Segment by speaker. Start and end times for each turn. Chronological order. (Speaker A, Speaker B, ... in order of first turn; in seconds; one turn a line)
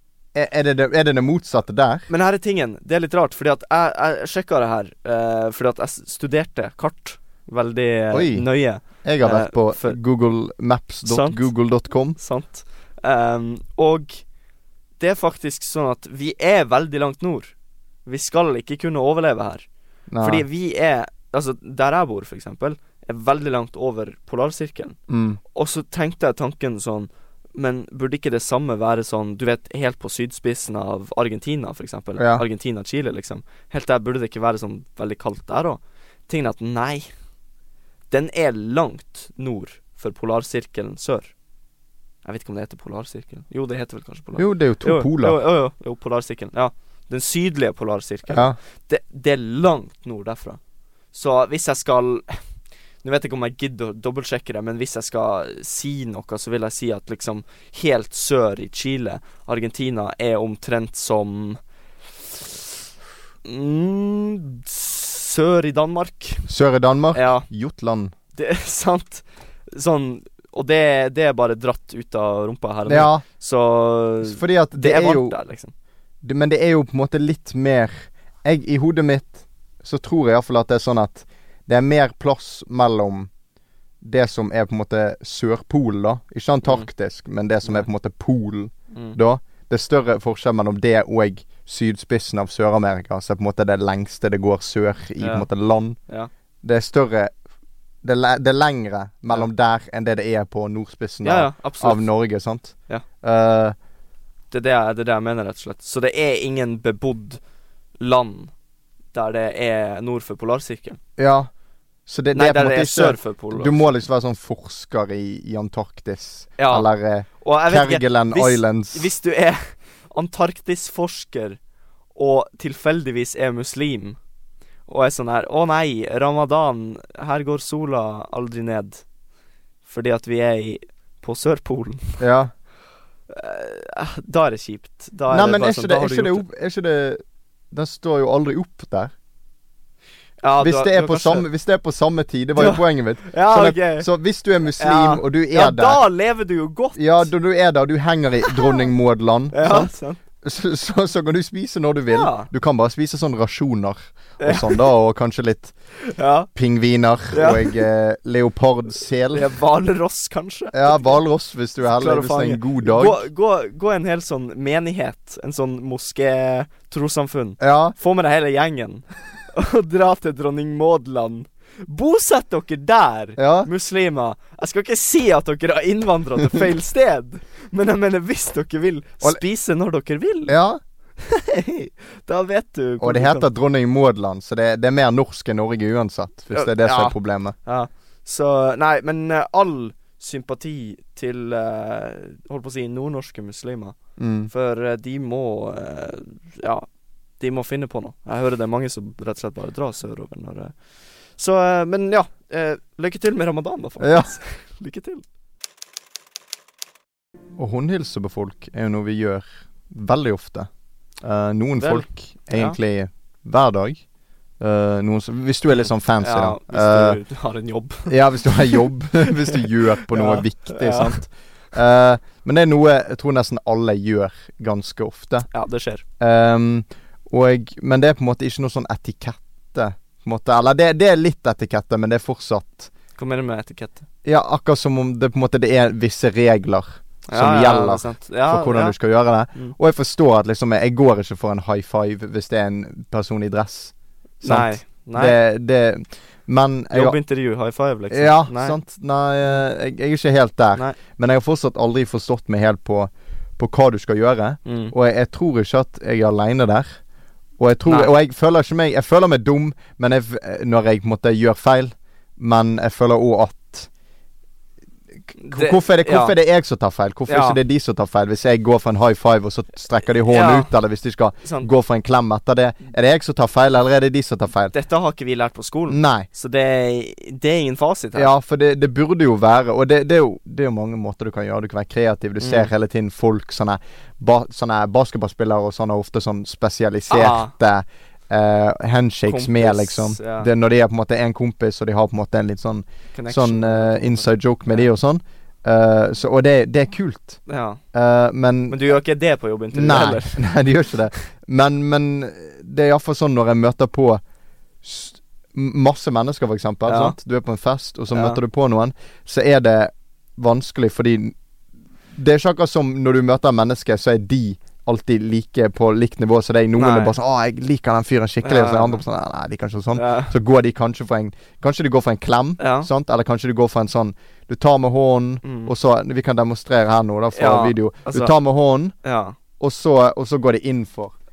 Speaker A: 0.3-2.1
Speaker B: 2.1-10.0
Speaker A: 8.1-8.5
Speaker A: 9.0-12.2
Speaker B: 11.0-11.5
Speaker B: 12.2-14.2
Speaker B: 15.0-17.5
Speaker B: 18.0-19.6
Speaker A: 20.1-20.4
Speaker B: 20.2-25.0
Speaker A: 25.1-25.4
Speaker B: 25.5-37.1
Speaker A: 32.2-32.4
Speaker B: 38.1-41.3
Speaker B: 42.2-50.6
Speaker A: 44.4-45.4
Speaker A: 48.3-48.5
Speaker B: 51.1-52.2
Speaker B: 53.0-61.6
Speaker B: 63.4-66.5
Speaker A: 66.5-68.1
Speaker B: 67.1-67.5
Speaker B: 68.3-75.7
Speaker A: 72.9-73.2
Speaker A: 74.2-75.3
Speaker A: 76.2-83.3
Speaker A: 84.0-96.0
Speaker B: 88.9-89.2
Speaker B: 95.2-95.5
Speaker A: 96.6-97.3
Speaker A: 98.0-103.7
Speaker B: 101.2-102.0
Speaker B: 104.5-107.4
Speaker B: 108.0-108.5
Speaker B: 109.1-111.0
Speaker A: 111.2-111.5
Speaker A: 112.1-119.1
Speaker B: 112.3-113.9
Speaker B: 116.6-116.9
Speaker B: 117.4-121.6
Speaker B: 122.1-124.2
Speaker B: 124.9-129.0
Speaker B: 129.8-132.2
Speaker A: 132.2-132.5
Speaker B: 133.3-136.4
Speaker A: 135.3-139.1
Speaker B: 140.4-141.5
Speaker A: 140.6-146.0
Speaker B: 142.6-144.1
Speaker B: 144.8-147.3
Speaker A: 146.9-155.7
Speaker B: 148.5-148.8
Speaker B: 149.5-150.2
Speaker B: 152.1-152.5
Speaker B: 154.4-154.9
Speaker B: 156.0-156.5
Speaker A: 156.5-159.4
Speaker B: 157.3-157.8
Speaker B: 159.3-161.2
Speaker A: 160.7-163.2
Speaker B: 161.8-180.5
Speaker A: 167.6-167.9
Speaker A: 173.4-173.7
Speaker A: 180.5-180.8
Speaker B: 181.2-183.5
Speaker A: 183.0-187.6
Speaker B: 186.5-193.9
Speaker A: 194.2-194.5
Speaker B: 194.5-196.9
Speaker B: 197.4-200.7
Speaker B: 201.4-205.2
Speaker A: 204.0-204.3
Speaker A: 207.6-210.7
Speaker A: 211.2-214.0
Speaker B: 211.8-212.8
Speaker A: 214.6-217.2
Speaker B: 216.2-218.8
Speaker A: 218.1-225.5
Speaker B: 219.4-221.2
Speaker B: 225.5-226.0
Speaker A: 226.2-232.9
Speaker B: 233.2-234.1
Speaker A: 234.2-247.2
Speaker B: 237.3-238.9
Speaker B: 244.4-245.4
Speaker B: 246.9-248.8
Speaker A: 248.1-257.0
Speaker B: 254.7-254.9
Speaker A: 257.6-263.9
Speaker B: 257.9-258.1
Speaker B: 265.4-266.3
Speaker A: 265.5-274.7
Speaker B: 267.3-267.6
Speaker B: 270.2-270.7
Speaker B: 271.4-271.7
Speaker B: 274.7-278.3
Speaker A: 275.9-276.3
Speaker A: 278.1-297.4
Speaker B: 282.4-282.7
Speaker B: 287.1-287.5
Speaker B: 289.3-290.5
Speaker B: 293.1-294.9
Speaker B: 297.4-297.8
Speaker A: 297.9-298.8
Speaker B: 298.7-300.5
Speaker A: 299.7-304.2
Speaker A: 304.8-311.3
Speaker B: 306.9-307.2
Speaker B: 308.1-308.4
Speaker A: 312.1-328.9
Speaker B: 316.8-317.1
Speaker B: 318.4-319.0
Speaker B: 319.9-320.3
Speaker B: 322.6-322.9
Speaker B: 325.4-325.7
Speaker B: 327.3-328.3
Speaker B: 329.0-329.4
Speaker A: 329.6-331.1